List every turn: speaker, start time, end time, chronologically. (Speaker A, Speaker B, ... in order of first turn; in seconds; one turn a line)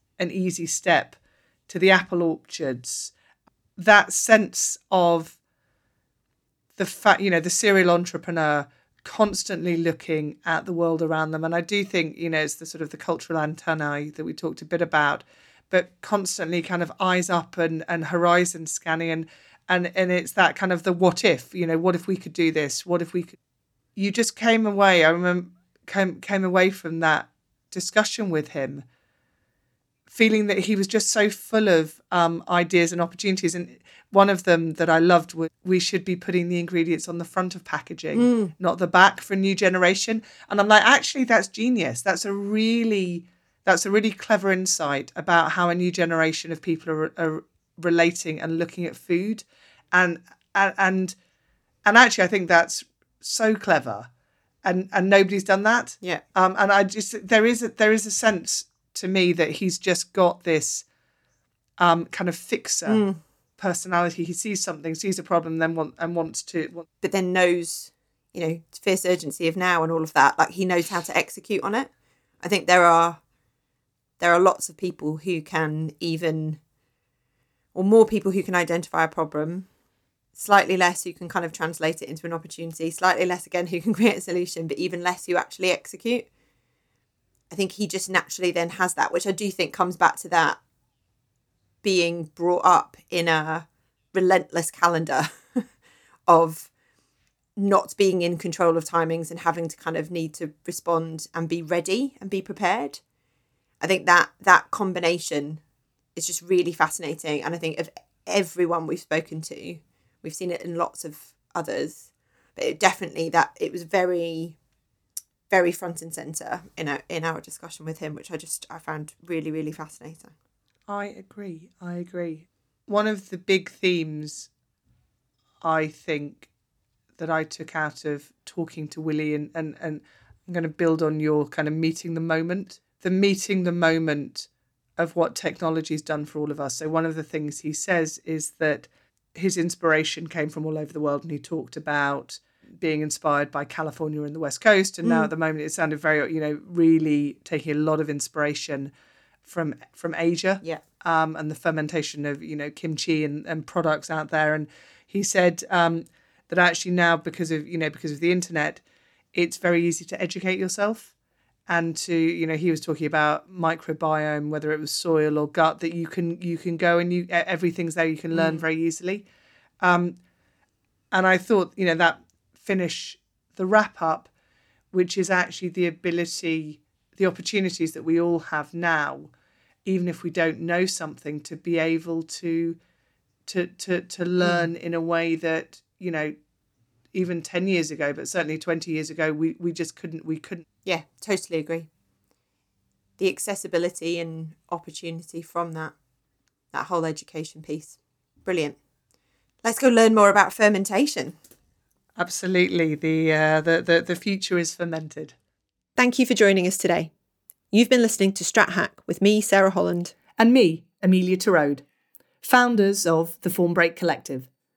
Speaker A: 0.2-3.1
Speaker A: 3.8-5.4
Speaker A: 6.8-23.4
Speaker A: 24.0-28.9
Speaker A: 30.1-51.2
Speaker B: 38.1-38.5
Speaker A: 51.9-54.1
Speaker A: 54.6-60.9
Speaker A: 61.8-63.0
Speaker B: 62.9-63.2
Speaker A: 63.6-66.9
Speaker B: 67.0-71.9
Speaker B: 72.4-73.2
Speaker B: 74.2-76.6
Speaker B: 77.8-79.7
Speaker B: 80.4-86.3
Speaker B: 87.5-90.6
Speaker B: 91.8-95.7
Speaker B: 96.3-96.7
Speaker B: 97.6-103.0
Speaker B: 103.8-105.6
Speaker B: 106.2-114.6
Speaker B: 115.5-120.3
Speaker A: 120.9-124.5
Speaker A: 125.6-126.5
Speaker A: 127.2-148.9
Speaker B: 145.0-145.3
Speaker A: 149.5-158.8
Speaker A: 159.3-161.1
Speaker A: 161.7-169.2
Speaker B: 168.3-168.7
Speaker A: 169.8-170.2
Speaker A: 171.1-174.3
Speaker A: 174.9-179.3
Speaker A: 179.9-182.8
Speaker A: 183.5-186.3
Speaker B: 184.4-184.7
Speaker A: 187.1-190.7
Speaker B: 190.8-191.9
Speaker B: 193.2-195.9
Speaker B: 196.7-198.8
Speaker B: 199.6-201.4
Speaker A: 202.2-205.3
Speaker B: 206.0-207.1
Speaker B: 207.7-210.1
Speaker A: 210.4-211.8
Speaker A: 212.4-214.5